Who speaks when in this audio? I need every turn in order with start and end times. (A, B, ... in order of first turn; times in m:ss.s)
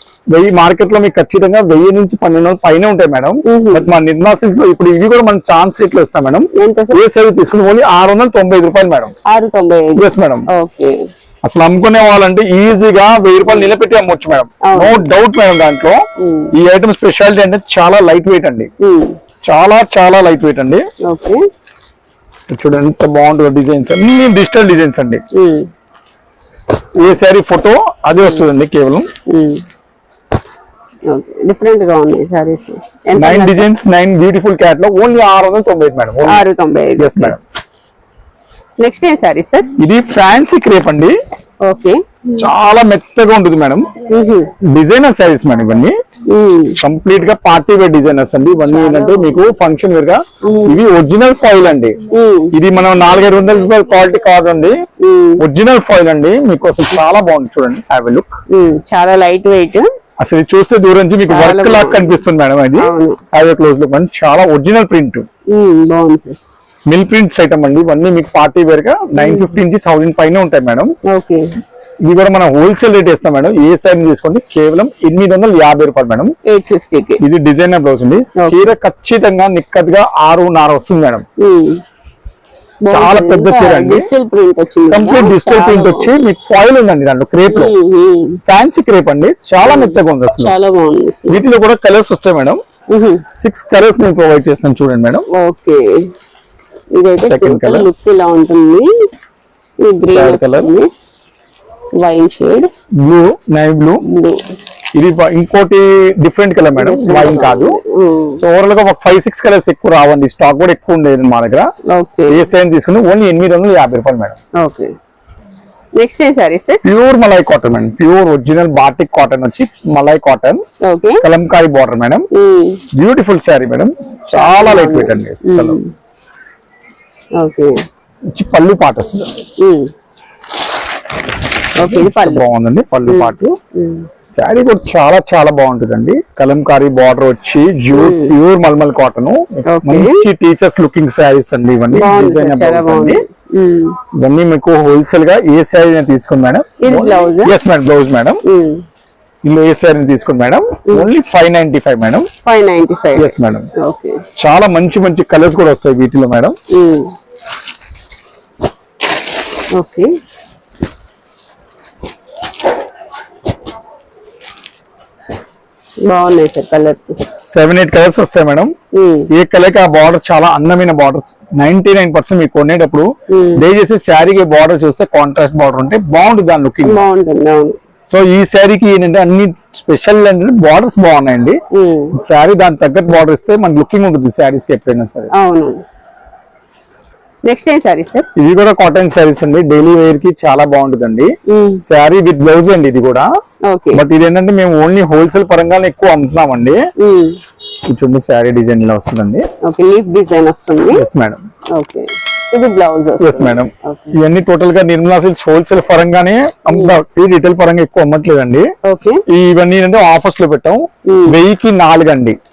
0:00.3-0:09.2 A
0:03.5-0:03.9 B
0:06.5-0:07.0 B
0:09.3-0:11.0 B
0:10.0-0:10.5 A
0:11.4-0:18.7 A
0:14.6-0:15.0 B
0:16.2-0:16.5 B
0:18.8-0:19.2 B
0:19.4-0:20.8 A
0:21.0-0:21.4 B
0:22.5-0:25.2 A
0:25.3-0:25.7 B
0:27.0-0:29.1 A
0:29.3-0:29.6 B
0:31.1-0:33.7 B
0:33.2-0:36.5 A
0:36.2-0:37.3 B
0:37.0-0:37.4 A
0:38.8-0:39.7 B
0:39.8-0:41.2 A
0:41.6-0:42.5 B
0:42.4-0:43.9 A
0:44.1-0:44.5 B
0:44.6-0:46.0 A
0:46.3-0:46.8 B
0:46.8-0:52.0 A
0:48.7-0:49.4 B
0:50.4-0:50.8 B
0:52.1-0:52.6 B
0:52.5-0:54.8 A
0:55.0-0:55.4 B
0:55.4-0:58.4 A
0:58.5-0:59.9 B
1:00.2-1:05.3 A
1:01.3-1:02.2 B
1:02.8-1:03.2 B
1:05.5-1:06.4 B
1:06.9-1:10.9 A
1:09.2-1:09.6 B
1:11.1-1:11.5 B
1:12.0-1:16.3 A
1:16.5-1:17.2 B
1:17.2-1:21.2 A
1:18.4-1:18.7 B
1:21.4-1:21.8 B
1:22.8-1:26.1 B
1:22.9-1:24.1 A
1:24.9-1:27.8 A
1:27.5-1:28.4 B
1:28.5-1:30.5 A
1:29.6-1:31.4 B
1:31.3-1:32.6 A
1:32.9-1:33.2 B
1:33.4-1:35.3 A
1:35.3-1:36.1 B
1:36.9-1:38.9 B
1:37.2-1:37.9 A
1:39.8-1:40.9 B
1:40.1-1:40.7 A
1:42.0-1:42.7 B
1:42.9-1:44.0 A
1:44.0-1:44.5 B
1:44.9-1:47.8 A
1:46.8-1:48.4 B
1:48.4-1:51.7 A
1:51.9-1:52.4 B
1:52.3-1:54.4 A
1:54.6-1:54.9 B
1:56.0-1:56.8 B
1:56.8-2:00.6 A
2:00.8-2:01.2 B
2:01.2-2:02.3 A
2:02.3-2:02.8 B
2:02.9-2:05.8 A
2:04.3-2:05.9 B
2:07.4-2:07.8 B
2:08.3-2:09.4 A
2:09.6-2:09.9 B
2:11.8-2:12.4 B
2:11.8-2:13.6 A
2:13.1-2:14.1 B
2:14.3-2:23.2 A
2:17.9-2:18.4 B
2:19.7-2:20.2 B
2:21.9-2:24.0 B
2:24.2-2:28.4 A
2:26.8-2:27.6 B
2:28.4-2:28.8 B
2:29.4-2:32.3 A
2:32.4-2:34.2 B
2:33.2-2:33.7 A
2:34.4-2:36.6 A
2:36.7-2:37.1 B
2:39.7-2:40.1 B
2:46.1-2:47.2 B
2:47.4-2:48.7 A
2:48.9-2:49.3 B
2:49.3-2:57.0 A
2:53.3-2:53.6 B
2:56.8-2:57.8 B
2:58.1-3:01.6 A
3:01.7-3:02.2 B
3:02.1-3:05.3 A
3:05.3-3:05.8 B
3:07.5-3:08.3 B
3:08.4-3:13.3 A
3:11.5-3:11.8 B
3:13.7-3:14.0 B
3:13.9-3:16.8 A
3:17.0-3:17.4 B
3:17.9-3:19.5 A
3:19.6-3:21.1 B
3:20.9-3:21.4 A
3:21.7-3:24.2 B
3:23.2-3:28.7 A
3:26.7-3:27.0 B
3:28.8-3:29.2 B
3:29.3-3:32.4 A
3:31.1-3:31.4 B